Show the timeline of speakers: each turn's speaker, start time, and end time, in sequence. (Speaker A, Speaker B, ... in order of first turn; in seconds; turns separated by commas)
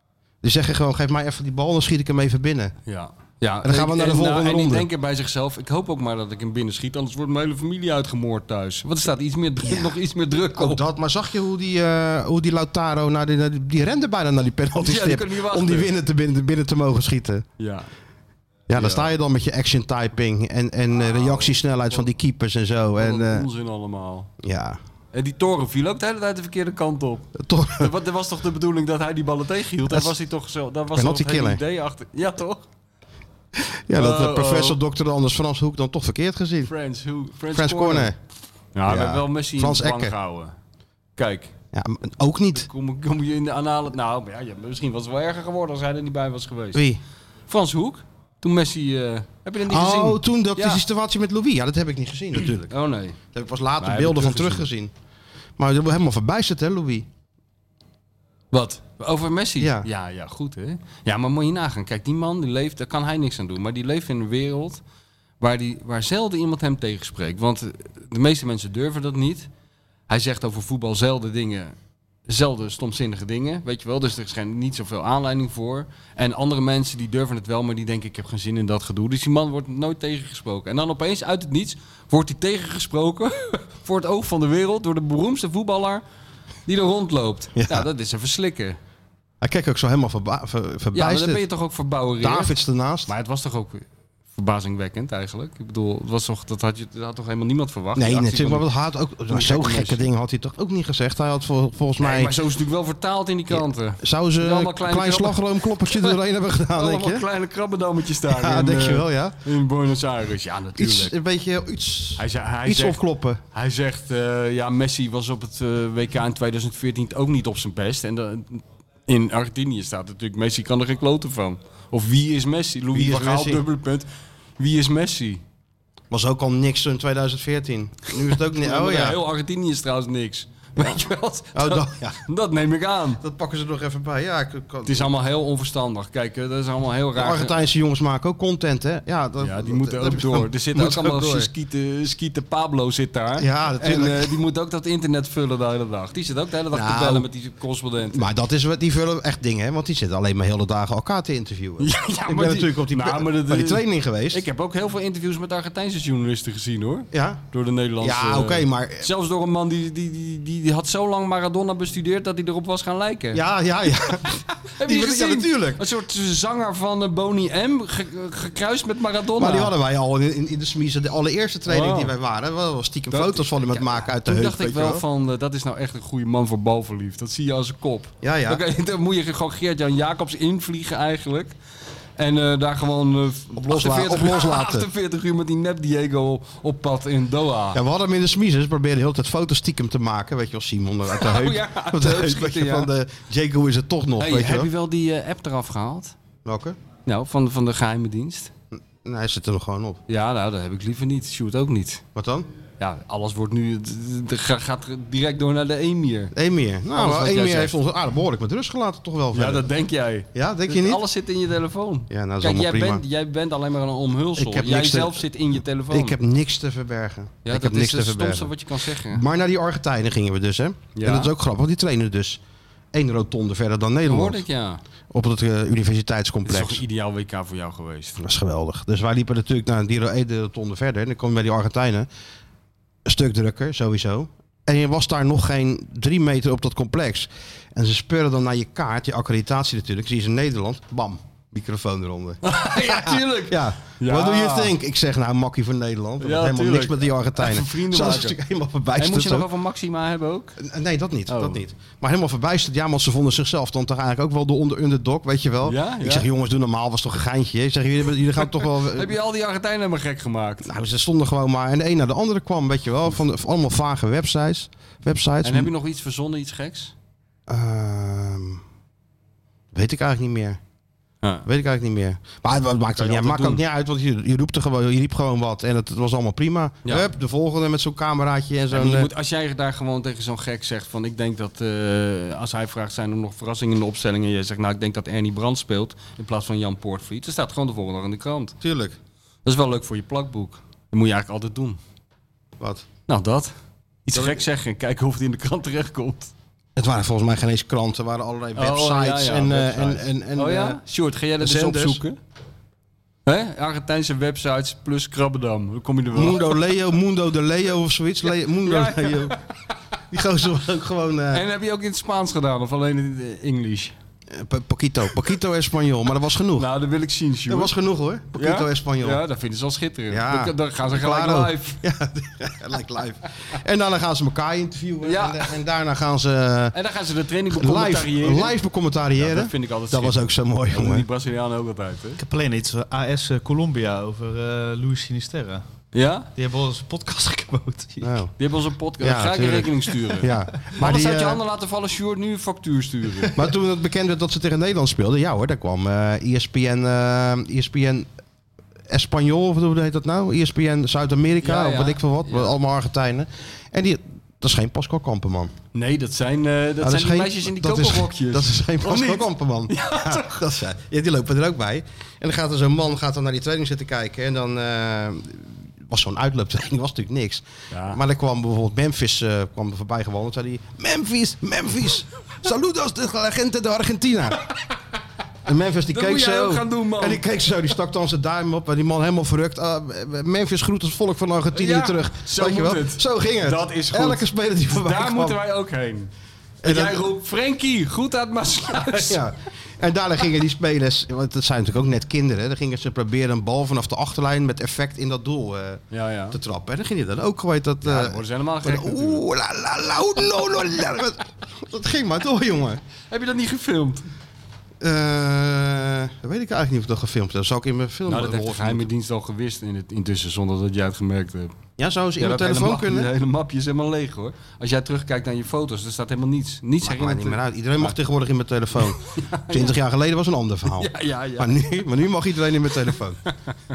Speaker A: 0.4-2.8, Speaker B: 2.9-10.8, Speaker A: 3.6-4.9, Speaker A: 9.6-10.0, Speaker A: 10.5-17.5, Speaker B: 14.8-15.9, Speaker B: 17.6-17.9, Speaker A: 18.7-23.5, Speaker B: 18.7-19.1, Speaker B: 21.0-22.1, Speaker B: 23.0-24.3, Speaker A: 24.4-24.8, Speaker B: 25.1-32.6, Speaker A: 27.4-27.9, Speaker A: 30.9-31.6, Speaker A: 33.6-36.7, Speaker B: 33.9-34.8, Speaker B: 36.6-38.1, Speaker A: 37.5-38.2, Speaker B: 38.8-40.5, Speaker A: 38.9-40.1, Speaker B: 41.2-41.5, Speaker A: 41.7-42.7, Speaker B: 42.5-46.9, Speaker A: 46.7-47.0, Speaker B: 47.5-50.8, Speaker A: 49.7-52.7, Speaker B: 52.7-53.2, Speaker A: 53.3-54.9, Speaker B: 53.8-54.7, Speaker A: 55.6-57.1, Speaker B: 58.5-64.8, Speaker A: 59.6-59.9, Speaker B: 65.4-69.5, Speaker B: 70.1-71.8, Speaker B: 72.3-86.0, Speaker B: 86.7-88.8, Speaker A: 87.6-87.9, Speaker A: 89.4-91.4, Speaker B: 90.9-98.7, Speaker A: 92.2-93.1, Speaker A: 98.0-102.4, Speaker B: 99.3-100.1, Speaker B: 102.0-106.2, Speaker A: 103.5-107.2, Speaker B: 106.7-111.2, Speaker A: 108.3-109.3, Speaker A: 110.8-113.4, Speaker B: 112.2-113.0, Speaker B: 113.5-124.1, Speaker A: 122.9-123.6, Speaker B: 124.6-125.4, Speaker A: 126.1-129.2, Speaker B: 128.6-133.2, Speaker A: 130.8-131.0, Speaker A: 131.6-132.2, Speaker A: 133.2-135.1, Speaker B: 134.8-137.6, Speaker A: 137.2-141.5, Speaker B: 139.4-148.3, Speaker A: 143.4-144.4, Speaker A: 146.7-147.3, Speaker A: 148.1-154.5, Speaker B: 151.8-163.4, Speaker A: 157.1-157.4, Speaker A: 158.0-159.1, Speaker A: 163.3-165.8, Speaker B: 164.7-169.7, Speaker A: 169.4-175.0, Speaker B: 171.7-172.1, Speaker B: 173.1-181.5, Speaker A: 178.2-178.6, Speaker B: 182.2-187.8, Speaker A: 183.5-184.9, Speaker A: 187.7-194.7, Speaker B: 191.1-192.9, Speaker B: 194.2-196.2, Speaker A: 196.4-196.8, Speaker B: 197.1-198.5, Speaker A: 198.7-200.0, Speaker B: 200.1-202.0, Speaker A: 202.2-202.5, Speaker B: 202.8-206.3, Speaker A: 206.3-209.7, Speaker B: 206.9-207.8, Speaker B: 209.3-216.2, Speaker A: 210.3-211.0, Speaker A: 212.1-213.0, Speaker A: 214.4-215.2, Speaker A: 215.9-218.5, Speaker B: 217.4-219.2, Speaker A: 219.1-222.4, Speaker B: 220.9-221.3, Speaker A: 222.9-224.4, Speaker B: 224.1-224.8, Speaker A: 225.1-226.8, Speaker B: 226.5-228.2, Speaker A: 228.2-232.1, Speaker A: 233.1-249.5, Speaker B: 242.4-244.8, Speaker B: 246.2-248.4, Speaker B: 249.0-250.6, Speaker A: 250.6-259.1, Speaker B: 251.3-251.6, Speaker B: 255.7-256.3, Speaker B: 258.4-260.7, Speaker A: 260.6-265.7, Speaker B: 265.4-266.9, Speaker A: 267.5-268.6, Speaker A: 269.7-270.6, Speaker A: 271.5-279.1, Speaker B: 272.9-273.6, Speaker B: 278.7-288.6, Speaker A: 288.6-289.0, Speaker B: 289.4-291.8, Speaker A: 292.6-292.9, Speaker B: 293.1-293.5, Speaker B: 294.1-296.3, Speaker A: 294.1-294.4, Speaker A: 296.8-300.8, Speaker B: 298.6-302.2, Speaker A: 301.4-302.0, Speaker B: 303.3-306.5, Speaker A: 306.1-309.4, Speaker B: 308.6-309.4, Speaker A: 310.1-311.4, Speaker B: 311.3-313.9, Speaker A: 314.3-316.7, Speaker B: 316.6-317.7, Speaker A: 317.5-319.2, Speaker B: 318.3-321.8, Speaker A: 320.1-326.8, Speaker B: 325.0-325.5, Speaker B: 326.7-328.6, Speaker A: 327.5-331.1, Speaker B: 329.2-332.2, Speaker C: 332.2-335.6, Speaker B: 335.9-336.3, Speaker C: 336.4-338.1, Speaker A: 338.0-338.3, Speaker B: 338.4-343.4, Speaker A: 339.0-341.4, Speaker A: 343.3-348.1, Speaker A: 348.9-355.5, Speaker B: 351.4-352.6, Speaker B: 355.7-360.4, Speaker A: 356.8-374.4, Speaker B: 367.7-368.0, Speaker A: 375.5-385.4, Speaker B: 375.9-377.2, Speaker B: 381.5-386.1, Speaker A: 386.6-387.1, Speaker B: 386.6-389.2, Speaker A: 388.8-402.8, Speaker B: 395.9-396.4, Speaker B: 397.8-399.2, Speaker B: 403.1-404.1, Speaker A: 404.8-408.9, Speaker B: 408.1-411.5, Speaker A: 411.8-413.1, Speaker B: 412.2-418.0, Speaker A: 416.8-423.2, Speaker B: 419.2-419.7, Speaker B: 420.7-421.6